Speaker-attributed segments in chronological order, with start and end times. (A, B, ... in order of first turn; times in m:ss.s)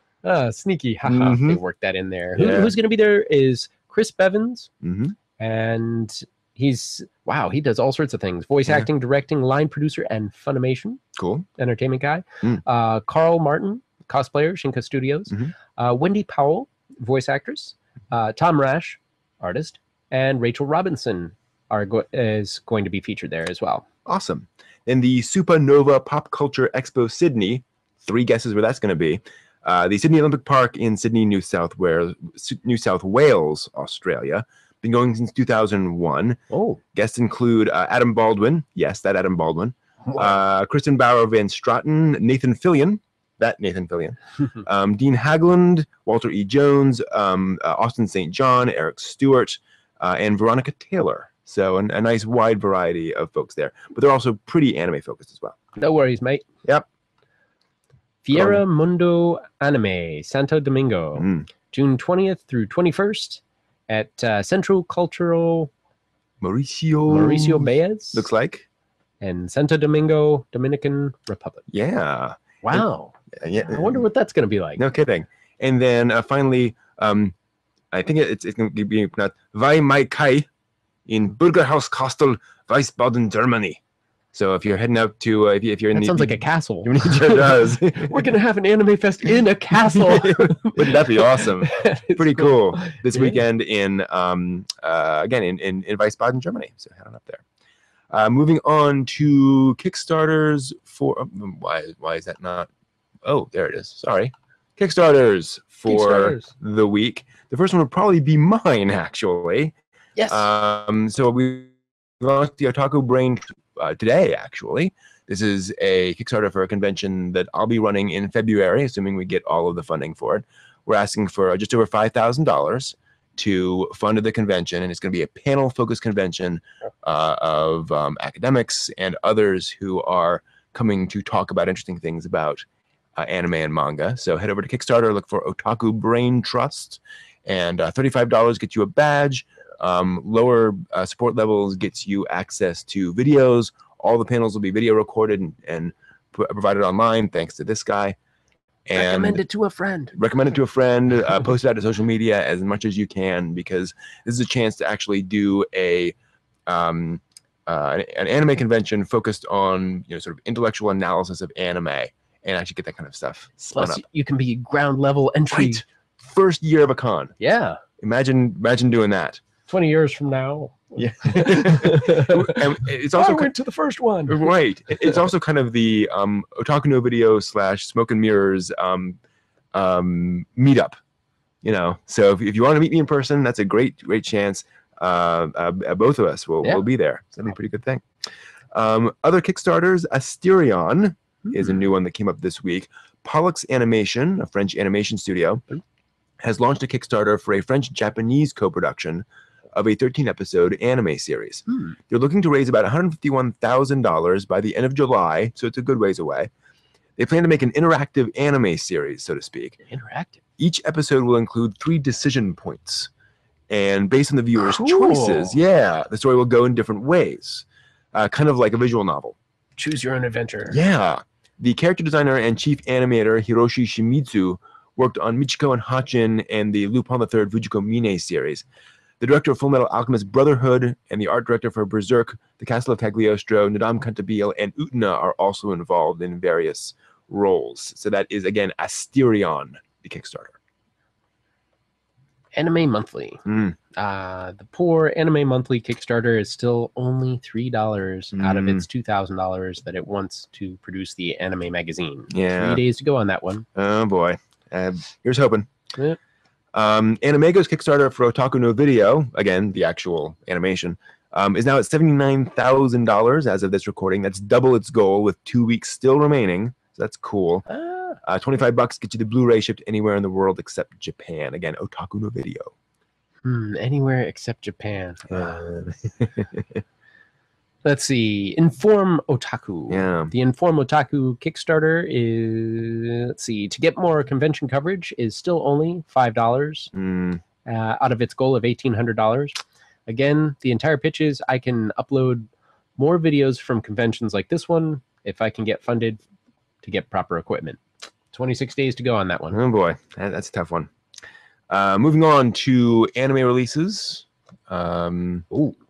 0:00.2-0:04.7 A
0:01.0-0:01.6 B
0:02.3-0:02.7 B
0:04.8-0:05.2 B
0:05.4-0:11.0 A
0:11.2-0:11.4 B
0:11.6-0:23.8 A
0:24.0-0:36.4 B
0:36.5-0:36.8 A
0:36.9-0:55.6 B
0:40.0-0:40.4 A
0:55.8-0:56.4 A
0:58.2-1:05.7 A
0:58.3-0:58.6 B
1:01.2-1:01.5 B
1:06.4-1:08.6 B
1:07.1-1:08.3 A
1:09.2-1:11.6 A
1:11.7-1:14.0 B
1:12.6-1:13.1 A
1:13.6-1:14.8 A
1:14.8-1:17.3 B
1:17.9-1:20.5 B
1:21.1-1:23.8 B
1:24.3-1:28.3 B
1:25.9-1:33.4 A
1:29.7-1:37.4 B
1:38.1-1:42.7 B
1:43.2-1:49.8 B
1:45.9-1:46.5 A
1:50.2-1:50.5 A
1:50.3-2:12.6 B
2:13.2-2:28.2 B
2:28.8-2:29.4 B
2:28.9-2:30.2 A
2:30.1-2:36.2 B
2:36.7-2:44.0 B
2:43.6-2:45.8 A
2:45.5-2:47.3 B
2:47.4-2:47.8 A
2:48.0-2:49.4 B
2:49.7-2:55.2 A
2:51.0-2:53.5 B
2:54.3-2:59.2 B
2:59.7-3:01.0 B
3:01.6-3:08.0 B
3:08.7-3:15.6 B
3:11.4-3:11.8 A
3:16.4-3:26.5 B
3:21.7-3:22.0 A
3:27.2-3:29.8 B
3:29.8-3:30.4 A
3:30.6-3:33.1 B
3:33.7-3:39.4 B
3:34.6-3:35.6 A
3:39.8-3:40.8 A
3:40.7-3:48.6 B
3:49.2-4:00.6 B
4:02.5-4:13.6 A
4:03.4-4:03.8 B
4:08.3-4:08.8 B
4:12.3-4:12.8 B
4:13.8-4:15.7 B
4:16.7-4:27.6 B
4:27.7-4:28.2 A
4:28.2-4:32.7 B
4:33.4-4:35.7 A
4:35.3-4:36.8 B
4:37.8-4:46.9 A
4:39.9-4:40.3 B
4:46.9-4:47.4 B
4:47.6-4:49.5 A
4:50.1-4:56.2 A
4:56.8-4:57.8 A
4:58.3-4:59.6 A
4:59.5-5:00.9 B
5:01.7-5:05.5 B
5:05.5-5:05.8 A